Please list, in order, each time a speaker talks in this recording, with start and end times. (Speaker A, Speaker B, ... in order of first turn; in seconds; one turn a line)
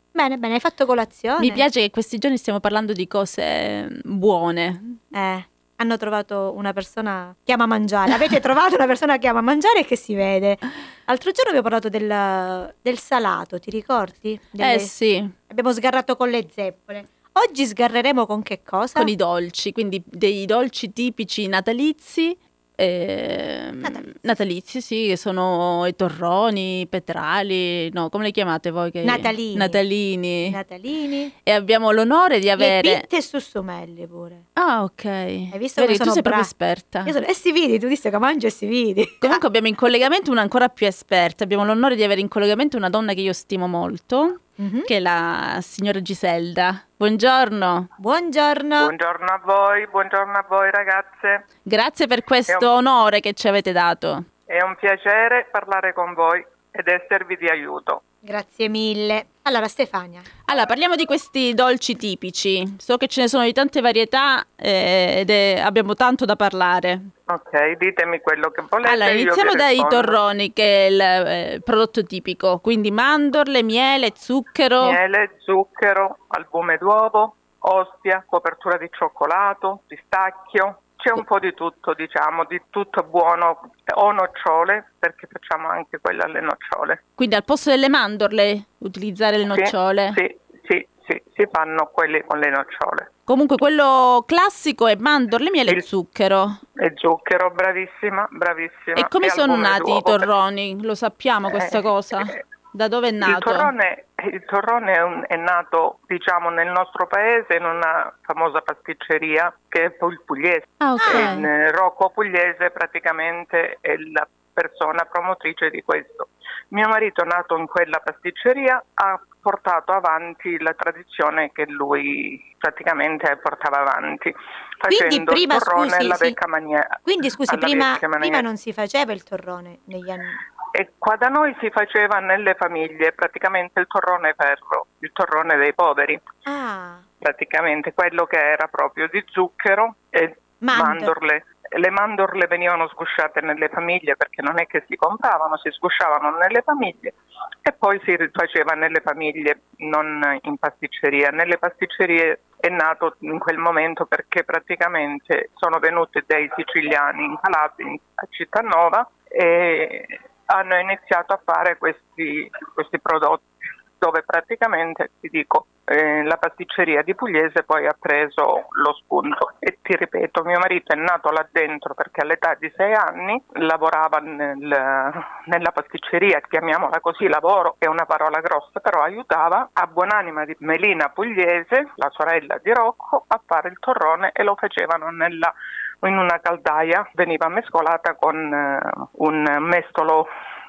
Speaker A: 0.1-1.6
Speaker B: 1.4-5.0
Speaker A: 5.1-14.9
Speaker B: 14.6-15.3
Speaker A: 15.5-19.1
Speaker B: 19.0-30.6
Speaker A: 23.8-24.4
Speaker A: 29.0-29.8
Speaker A: 30.5-31.3
Speaker B: 31.5-33.1
Speaker A: 32.6-34.5
Speaker B: 34.6-37.1
Speaker A: 35.5-36.5
Speaker A: 37.0-39.4
Speaker B: 39.2-47.9
Speaker A: 44.6-44.9
Speaker A: 48.0-48.9
Speaker C: 48.8-51.5
Speaker B: 51.6-54.3
Speaker C: 54.5-58.0
Speaker A: 58.2-60.3
Speaker B: 60.5-67.1
Speaker C: 67.3-70.2
Speaker B: 68.8-75.0
Speaker C: 74.8-87.0
Speaker B: 87.2-90.2
Speaker C: 89.5-93.1
Speaker B: 93.3-96.6
Speaker C: 96.8-100.3
Speaker B: 99.0-103.7
Speaker C: 101.5-102.4
Speaker C: 103.2-128.5
Speaker B: 110.8-111.5
Speaker A: 111.0-111.4
Speaker A: 124.9-126.4
Speaker A: 127.0-130.4
Speaker C: 130.7-136.2
Speaker A: 136.5-137.1
Speaker C: 137.2-163.5
Speaker A: 140.6-141.1
Speaker C: 164.0-190.3